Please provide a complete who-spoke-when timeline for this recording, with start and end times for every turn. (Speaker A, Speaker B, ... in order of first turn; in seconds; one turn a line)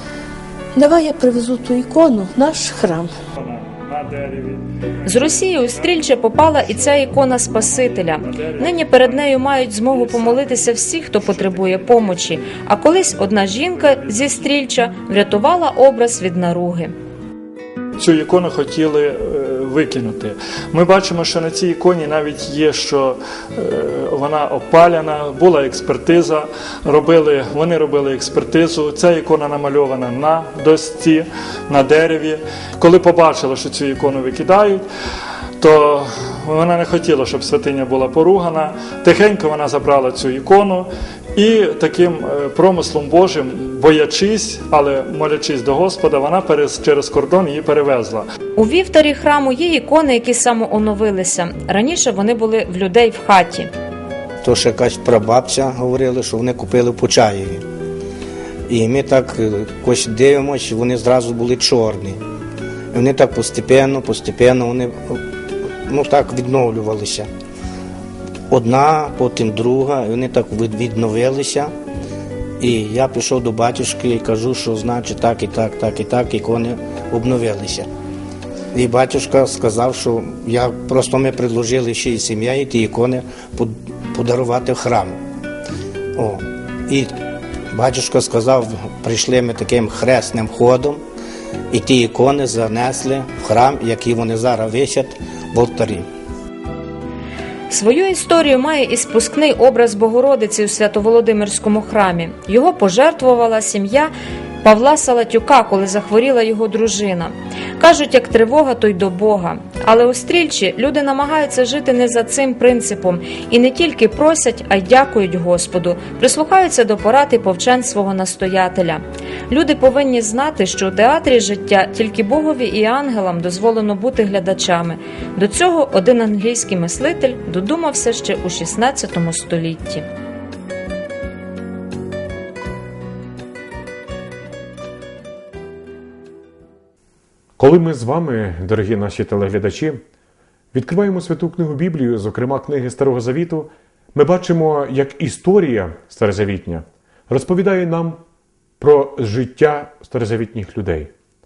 Speaker A: 0.7-3.1
Speaker B: 3.4-10.6
Speaker C: 5.0-16.9
Speaker B: 11.2-12.2
Speaker B: 13.8-14.4
Speaker B: 18.0-34.9
Speaker B: 35.6-48.3
Speaker C: 48.6-53.7
Speaker D: 54.4-57.6
Speaker D: 58.7-62.2
Speaker D: 62.9-65.2
Speaker D: 65.8-67.3
Speaker D: 68.5-71.7
Speaker D: 72.6-77.9
Speaker D: 78.7-85.2
Speaker D: 86.2-87.1
Speaker D: 87.7-91.0
Speaker D: 91.7-96.1
Speaker C: 97.7-104.1
Speaker C: 104.6-130.0
Speaker E: 137.6-140.0
Speaker E: 140.7-148.2
Speaker E: 148.8-151.1